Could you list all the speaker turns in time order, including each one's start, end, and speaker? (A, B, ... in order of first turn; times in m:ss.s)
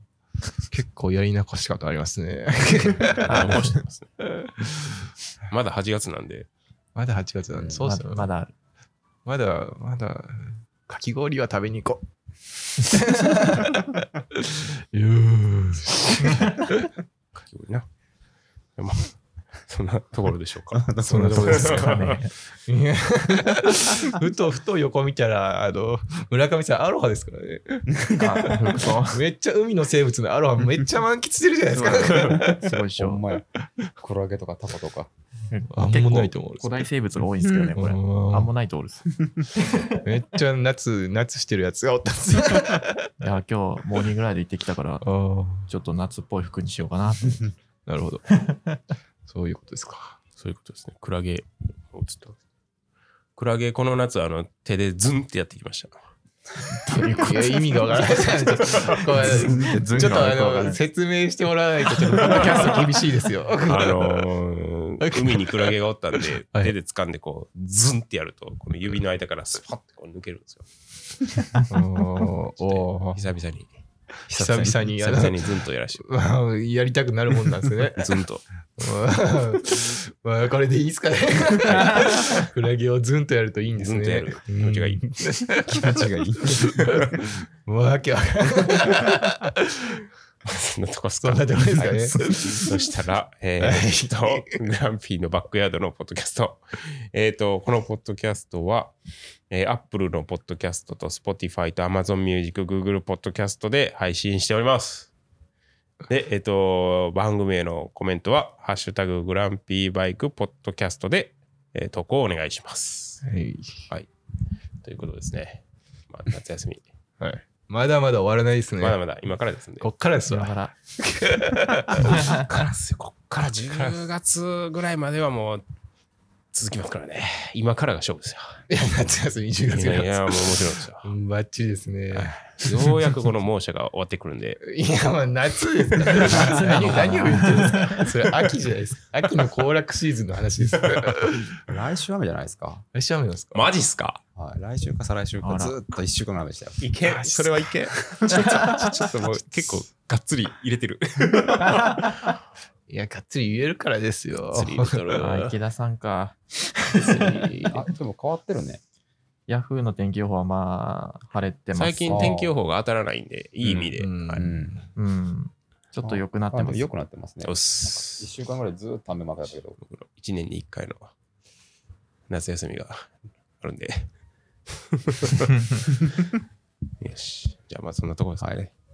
0:00.7-0:05.1 A
0:03.2-0:04.2 B
0:05.5-0:06.5 B
0:07.0-0:08.3 A
0:07.5-0:07.8 C
0:07.8-0:08.5 D
0:09.2-0:12.1 A
0:12.8-0:16.9 A
0:17.4-0:17.9 B
0:18.8-0:22.2 B
0:20.8-0:21.8 C
0:21.0-0:21.9 A
0:21.1-0:22.3 D
0:22.7-0:32.7 A
0:27.9-0:28.4 C
0:28.1-0:29.2 D
0:31.8-0:33.2 D
0:32.0-0:33.5 C
0:34.0-0:35.1 C
0:35.5-0:40.0 D
0:35.7-0:36.9 A
0:37.7-0:38.5 A
0:40.0-0:43.1 A
0:43.2-0:47.5 D
0:45.0-0:45.7 A
0:47.9-0:48.3 A
0:48.5-0:48.8 D
0:49.3-0:50.2 A
0:50.4-0:52.4 B
0:53.4-0:56.0 B
0:56.8-0:58.0 D
0:56.9-1:04.3 A
0:58.6-1:00.8 D
0:59.4-1:00.3 C
1:02.3-1:02.8 B
1:03.6-1:10.7 B
1:05.0-1:06.7 A
1:11.7-1:13.2 A
1:12.5-1:13.7 B
1:14.3-1:15.2 C
1:14.3-1:18.1 A
1:15.0-1:16.1 B
1:18.0-1:18.4 B
1:18.8-1:30.0 A
1:23.8-1:25.1 B
1:25.7-1:26.9 C
1:30.4-1:39.0 B
1:31.2-1:32.8 A
1:31.8-1:32.2 C
1:33.6-1:34.6 A
1:39.5-1:45.1 B
1:46.1-1:53.2 B
1:53.2-1:53.9 A
1:54.8-1:56.8 B
1:57.2-1:59.0 A
1:58.8-1:59.9 B
1:59.8-2:02.4 A
2:00.3-2:00.7 D
2:02.1-2:05.6 B
2:06.5-2:08.6 B
2:08.7-2:12.8 A
2:09.7-2:11.1 B
2:12.1-2:14.6 B
2:14.6-2:21.6 A
2:16.1-2:17.0 C
2:16.4-2:18.1 D
2:21.7-2:22.8 C
2:22.9-2:23.6 A
2:23.5-2:24.2 B
2:24.4-2:26.8 C
2:25.4-2:25.8 D
2:26.8-2:32.3 B
2:27.0-2:27.6 A
2:28.3-2:28.8 D
2:32.9-2:35.4 A
2:34.5-2:35.6 B
2:35.2-2:36.4 D
2:37.0-2:37.4 D
2:37.0-2:37.9 B
2:37.7-2:38.8 C
2:39.5-2:42.3 D
2:41.7-2:44.5 B
2:42.1-2:42.6 C
2:43.6-2:44.8 C
2:44.0-2:44.9 A
2:45.0-2:46.9 D
2:46.0-2:49.8 C
2:47.4-2:48.3 B
2:49.8-2:51.1 B
2:52.3-2:54.1 B
2:54.7-2:55.9 B
2:57.0-2:58.7 B